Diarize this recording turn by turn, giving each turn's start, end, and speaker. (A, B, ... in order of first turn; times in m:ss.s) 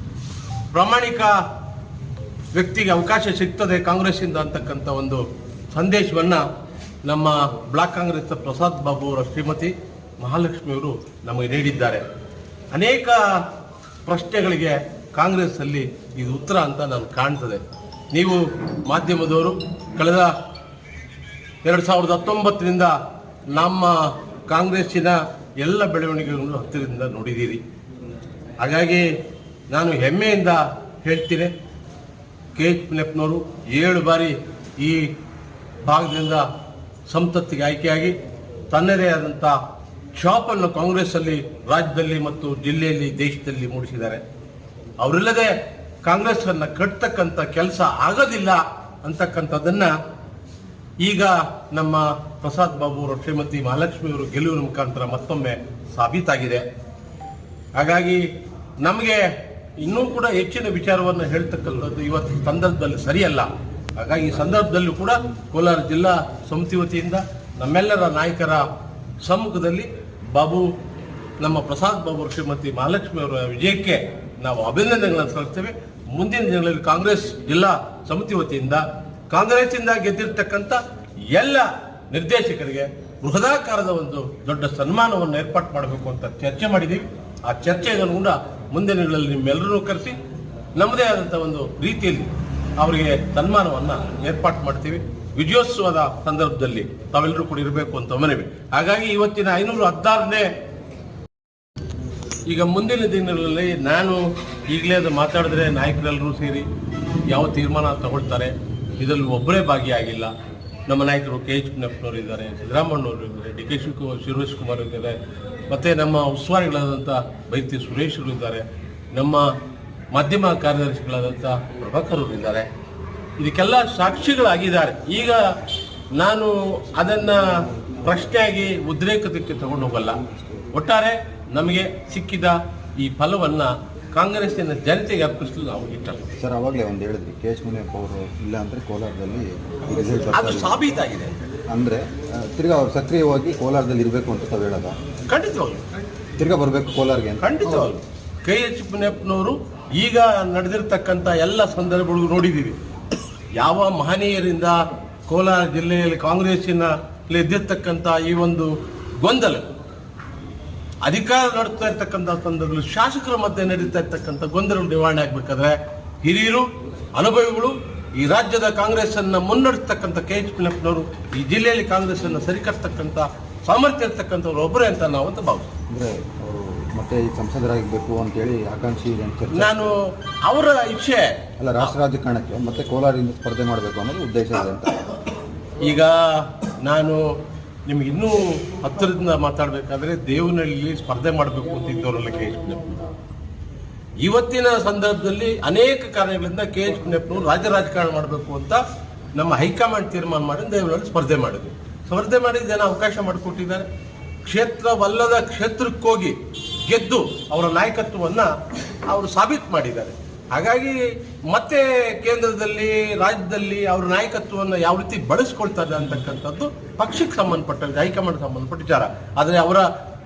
0:00.7-0:01.4 A
0:02.5-0:06.4 A
0:07.0-0:12.0 A
0:12.7-0:13.5 A
0:14.1-0:17.6 A
0:18.1-0:20.3 A
0:21.6-0:23.0 A
0:23.5-0:27.6 A
0:28.6-0:29.1 A
0:29.7-0:31.5 A
0:32.6-0:35.1 A
0:35.8-0:36.5 A
0:37.1-0:38.2 A
0:38.7-0:39.6 A
0:40.1-0:44.2 A
0:45.0-0:49.9 A
0:51.0-0:56.6 A
0:57.8-0:58.3 A
0:58.8-1:08.7 A
1:09.2-1:10.7 A
1:11.4-1:20.8 A
1:21.3-1:30.2 A
1:30.8-1:40.5 A
1:42.5-1:46.7 A
1:47.3-1:50.3 A
1:50.9-1:55.2 A
1:55.7-1:59.5 A
2:00.1-2:02.7 A
2:03.4-2:05.4 A
2:06.2-2:10.2 A
2:10.7-2:16.2 A
2:16.4-2:20.8 B
2:20.3-2:21.3 A
2:21.7-2:25.0 B
2:25.3-2:25.8 A
2:26.4-2:27.9 B
2:27.4-2:32.8 A
2:33.6-2:39.7 A
2:41.0-2:55.7 A
2:55.9-2:59.9 B
2:59.5-3:01.9 A
3:01.6-3:05.0 B
3:05.8-3:07.2 A
3:07.9-3:13.0 A
3:14.2-3:18.8 A
3:19.4-3:23.9 A
3:24.4-3:28.5 A
3:29.1-3:39.9 A